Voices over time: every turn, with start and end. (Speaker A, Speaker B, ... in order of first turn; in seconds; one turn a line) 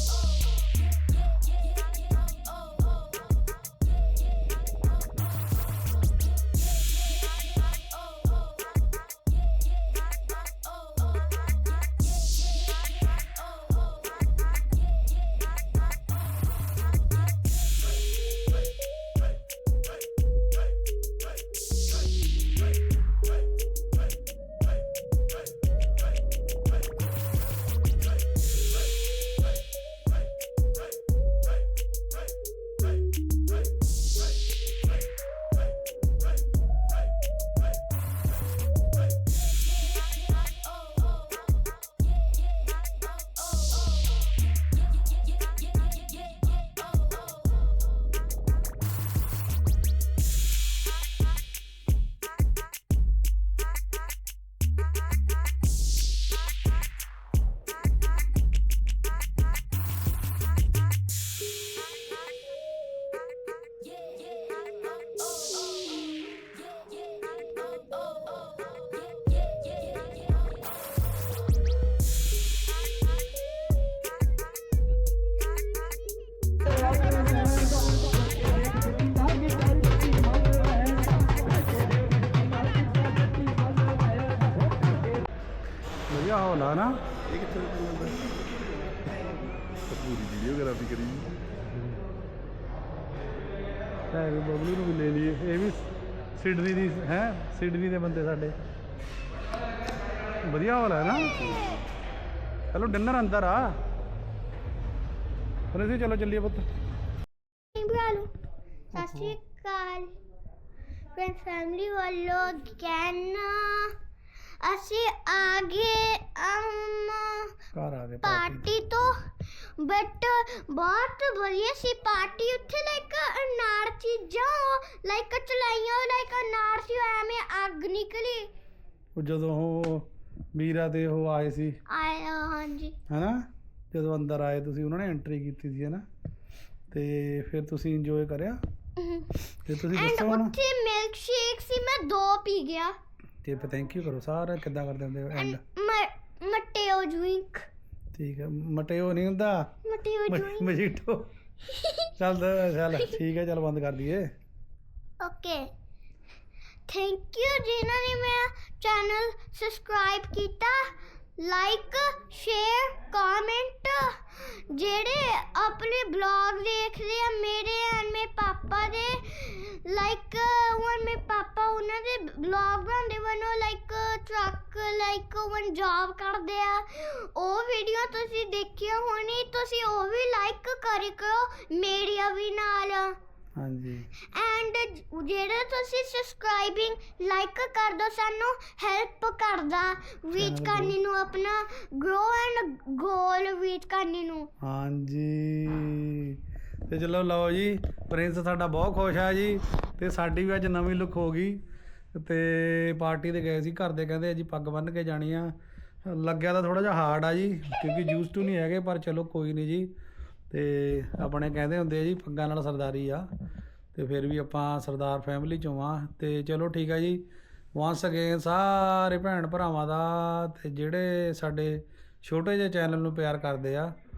Speaker A: 86.1-87.0
Speaker B: 87.4-88.3
Speaker B: 89.9-91.3
Speaker A: 91.7-92.0
Speaker A: 94.1-98.5
Speaker A: 100.5-101.6
Speaker A: 102.7-103.8
Speaker A: 105.7-106.7
Speaker C: 107.7-108.3
Speaker C: 109.0-110.1
Speaker A: 109.0-109.4
Speaker C: 111.1-114.0
Speaker C: 114.6-117.6
Speaker A: 117.7-118.7
Speaker C: 118.2-128.5
Speaker A: 129.2-131.8
Speaker C: 131.9-133.0
Speaker A: 133.1-136.0
Speaker A: 136.9-138.6
Speaker C: 139.0-142.9
Speaker A: 139.6-140.5
Speaker A: 143.4-145.6
Speaker C: 145.3-147.7
Speaker A: 148.1-149.7
Speaker C: 149.8-150.7
Speaker A: 150.3-151.2
Speaker C: 151.6-152.2
Speaker A: 152.2-154.3
Speaker C: 155.2-155.7
Speaker C: 156.9-183.2
Speaker A: 183.6-184.1
Speaker C: 184.2-194.5
Speaker A: 190.4-190.9
Speaker A: 194.6-201.6
Speaker A: 202.1-205.5
Speaker A: 206.1-209.9
Speaker A: 210.5-213.3
Speaker A: 213.9-217.2
Speaker A: 217.8-223.9